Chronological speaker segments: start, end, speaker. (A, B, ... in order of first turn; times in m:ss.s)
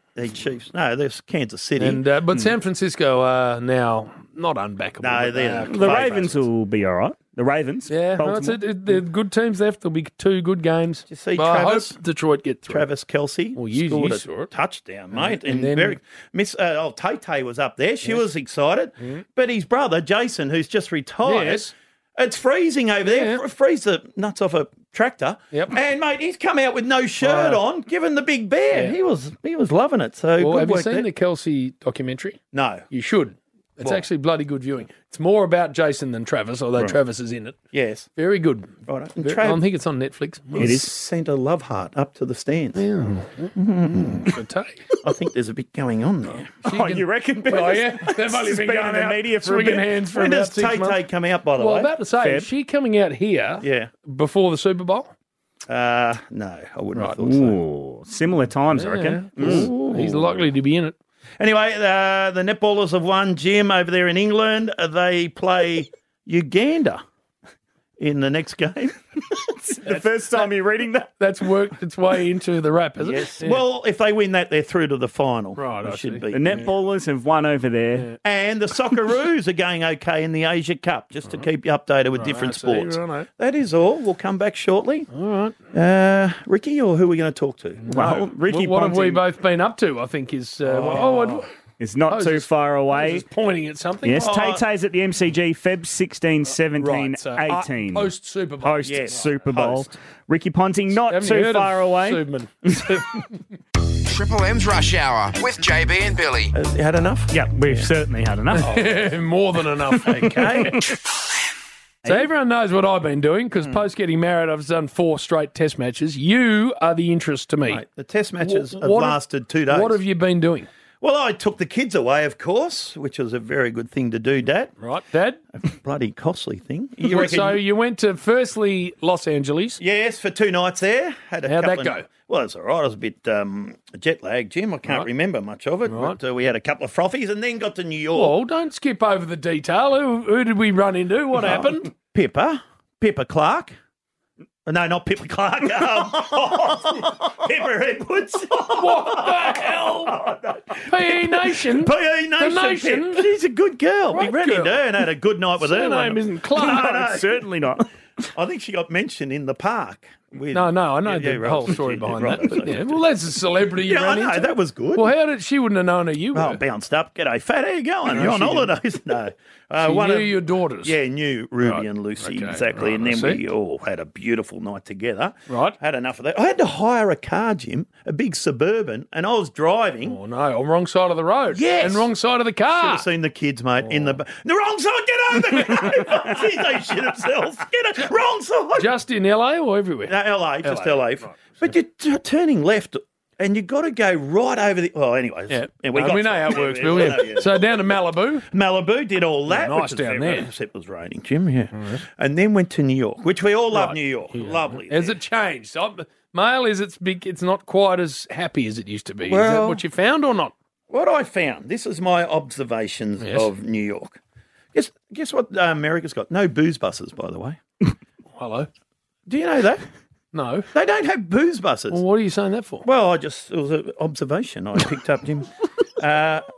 0:00.2-0:02.0 A
0:01.8-0:06.1 B
0:05.0-0:06.5 A
0:05.7-0:08.6 C
0:07.9-0:12.9 B
0:11.1-0:12.0 A
0:12.7-0:31.1 A
0:13.6-0:14.5 B
0:15.2-0:16.0 B
0:21.2-0:21.7 B
0:23.1-0:23.4 B
0:25.5-0:25.8 B
0:27.2-0:27.6 B
0:30.4-0:37.6 B
0:32.5-0:32.9 A
0:37.7-0:38.1 A
0:38.2-0:40.8 B
0:38.9-0:39.6 A
0:40.6-0:42.9 A
0:40.6-0:40.9 C
0:42.8-0:44.8 B
0:43.6-0:44.4 A
0:45.0-0:46.5 A
0:46.6-0:51.0 B
0:46.7-0:49.8 C
0:50.1-0:51.9 A
0:51.6-0:55.1 B
0:52.2-0:52.5 C
0:53.6-0:53.9 A
0:55.7-0:57.6 A
0:57.1-0:59.7 C
0:58.7-1:01.0 B
0:59.4-1:00.4 A
1:01.4-1:07.0 A
1:08.0-1:09.0 A
1:09.7-1:11.1 C
1:11.2-1:13.6 B
1:13.0-1:16.7 A
1:15.6-1:16.2 B
1:16.3-1:18.1 C
1:18.2-1:25.1 A
1:22.2-1:23.3 B
1:25.1-1:25.6 B
1:25.7-1:28.1 A
1:27.8-1:31.5 B
1:27.9-1:29.2 C
1:30.7-1:31.4 A
1:31.8-1:33.2 C
1:32.1-1:34.3 B
1:34.0-1:42.2 C
1:34.1-1:34.6 A
1:36.8-1:39.2 B
1:38.8-1:39.9 A
1:41.1-1:43.2 B
1:44.0-1:46.5 D
1:46.5-1:47.8 A
1:47.3-1:48.8 C
1:48.5-1:50.9 B
1:50.2-1:50.8 A
1:52.1-1:57.8 B
1:57.7-2:00.0 A
1:58.4-2:00.7 B
2:01.0-2:04.7 A
2:04.8-2:05.4 B
2:05.6-2:07.6 A
2:07.0-2:09.8 B
2:09.8-2:18.4 A
2:11.4-2:12.1 B
2:15.9-2:16.2 B
2:18.1-2:21.9 B
2:21.4-2:23.8 A
2:24.7-2:37.5 A
2:28.6-2:30.2 B
2:30.9-2:33.3 B
2:34.1-2:34.8 B
2:35.6-2:37.1 B
2:36.6-2:37.8 C
2:38.4-2:43.0 A
2:40.5-2:46.6 B
2:43.8-2:45.1 A
2:46.3-3:00.2 A
2:48.1-2:48.7 B
2:49.8-2:51.0 B
2:51.6-2:53.4 B
2:55.5-2:55.8 B
3:00.1-3:03.1 B
3:01.5-3:02.1 A
3:02.7-3:08.9 A
3:08.8-3:11.7 B
3:10.1-3:17.7 A
3:15.5-3:18.5 B
3:18.5-3:25.2 A
3:19.5-3:20.5 B
3:23.7-3:30.5 B
3:29.2-3:29.8 A
3:30.9-3:34.2 A
3:33.2-3:33.5 B
3:34.7-3:37.6 A
3:38.4-3:38.7 B
3:39.3-3:39.8 A
3:40.3-3:40.7 B
3:40.7-3:42.0 A
3:41.9-3:42.9 B
3:42.8-3:46.4 A